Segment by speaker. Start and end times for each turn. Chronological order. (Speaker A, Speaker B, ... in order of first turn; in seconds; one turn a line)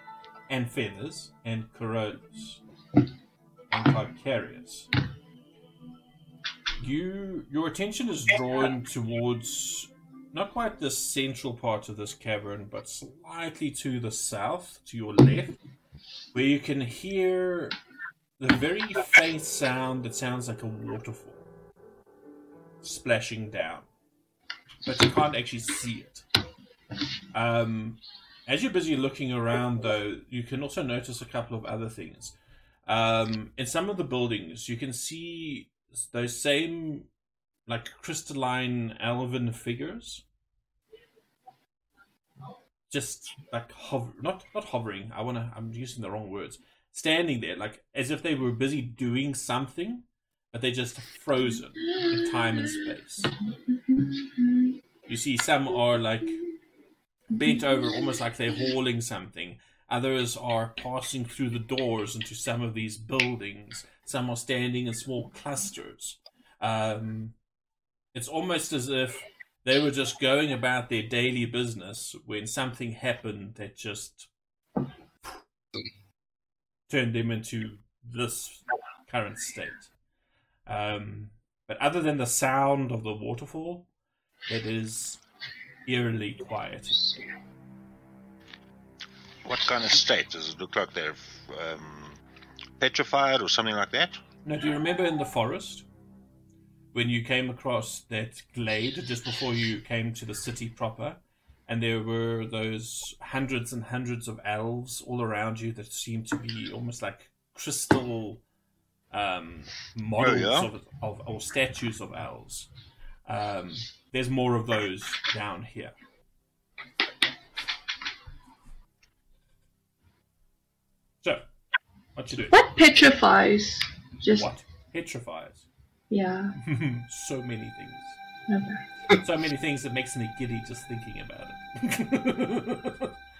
Speaker A: 0.5-2.6
Speaker A: 3.7-4.9
Speaker A: 6.8-15.6
Speaker A: 16.3-17.8
Speaker A: 18.4-21.5
Speaker A: 22.8-23.9
Speaker A: 24.9-26.2
Speaker A: 27.3-32.4
Speaker A: 32.9-37.1
Speaker A: 37.7-40.2
Speaker A: 42.9-53.3
Speaker B: 53.7-54.7
Speaker A: 55.1-56.4
Speaker A: 57.3-67.4
Speaker A: 68.1-74.3
Speaker A: 76.9-79.9
Speaker A: 80.7-83.9
Speaker A: 84.5-85.2
Speaker A: 85.9-87.2
Speaker C: 89.4-92.2
Speaker C: 92.8-94.2
Speaker A: 94.5-95.8
Speaker A: 96.9-108.4
Speaker A: 109.1-112.7
Speaker C: 110.2-110.7
Speaker A: 113.3-115.9
Speaker A: 122.2-122.6
Speaker B: 122.5-124.5
Speaker A: 124.3-125.7
Speaker B: 126.1-126.5
Speaker A: 126.6-128.2
Speaker B: 128.5-128.8
Speaker A: 129.2-133.1